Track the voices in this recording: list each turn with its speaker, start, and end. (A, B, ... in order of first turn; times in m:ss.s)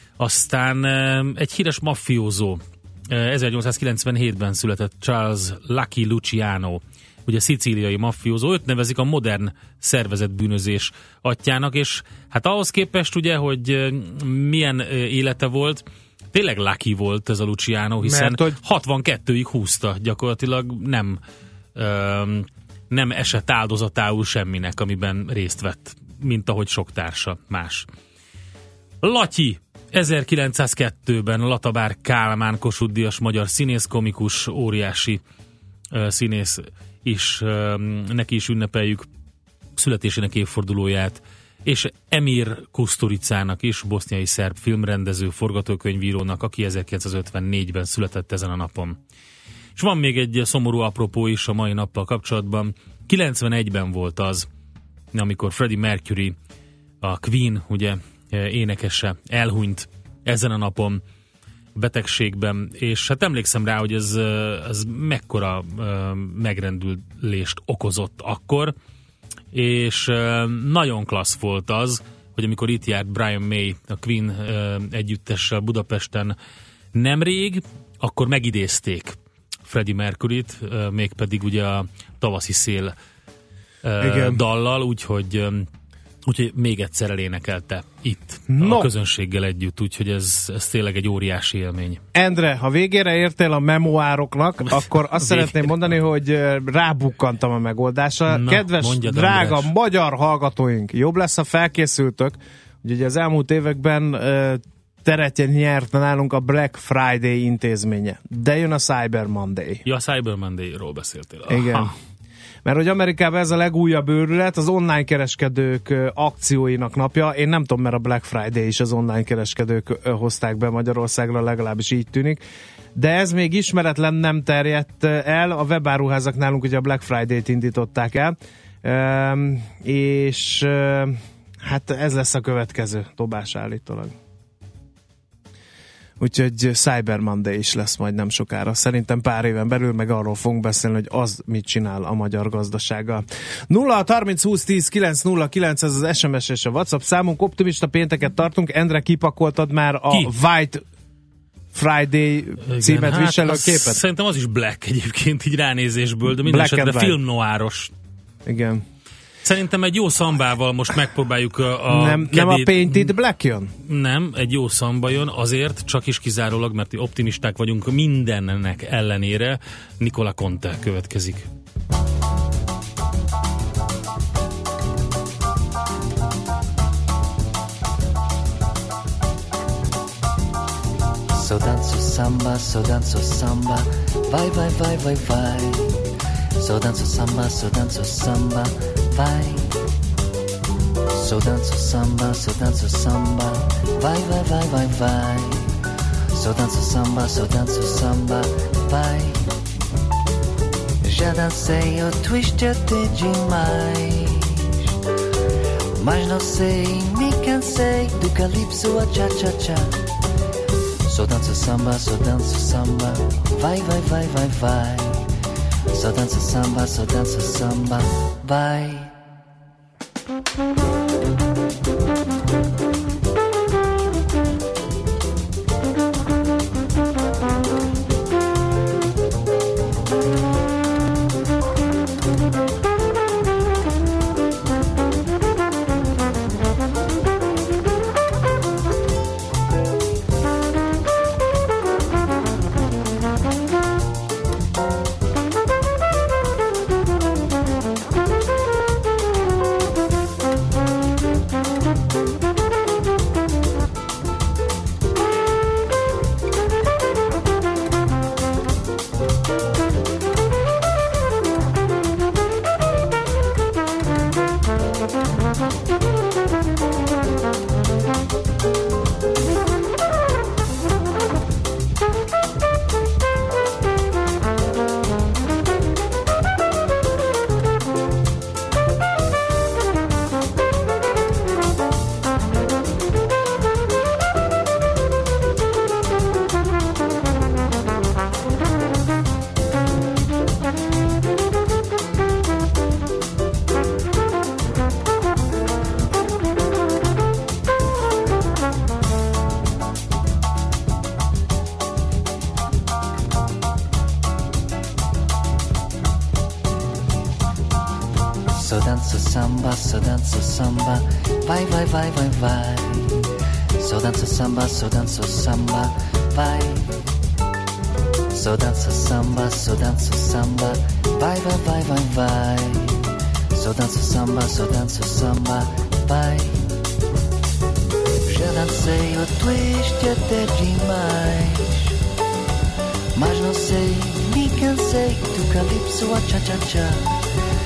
0:00.2-0:21.2 A
0:18.0-0:18.6 B
0:21.8-0:27.9 A
0:29.0-0:35.2 A
0:35.9-0:39.1 A
0:39.8-0:49.0 A
0:49.8-0:54.5 A
0:55.1-0:56.4 A
0:57.0-1:01.0 A
1:01.8-1:08.7 A
1:09.5-1:16.3 A
1:16.9-1:19.2 A
1:19.7-1:22.9 A
1:23.8-1:25.7 A
1:24.0-1:24.4 B
1:26.2-1:32.0 A
1:28.5-1:28.9 B
1:32.1-1:49.8 B
1:34.7-1:35.9 A
1:38.3-1:39.7 A
1:49.8-1:51.9 A
1:51.5-1:51.9 B
1:52.6-2:02.4 B
2:02.9-2:14.1 B
2:16.2-2:30.8 B
2:31.7-2:34.0 B
2:32.6-2:37.9 A
2:36.3-2:37.2 B
2:38.4-2:38.8 B
2:39.4-2:43.1 A
2:41.9-2:43.7 B
2:43.8-2:51.5 A
3:01.3-3:06.0 C
3:06.6-3:09.8 C
3:11.1-3:15.8 C
3:16.3-3:19.5 C
3:21.0-3:24.9 C
3:26.0-3:30.0 C
3:31.0-3:35.2 C
3:35.9-3:39.1 C
5:08.5-5:13.2 C
5:13.8-5:17.0 C
5:18.3-5:26.7 C
5:28.2-5:32.0 C
5:33.1-5:37.1 C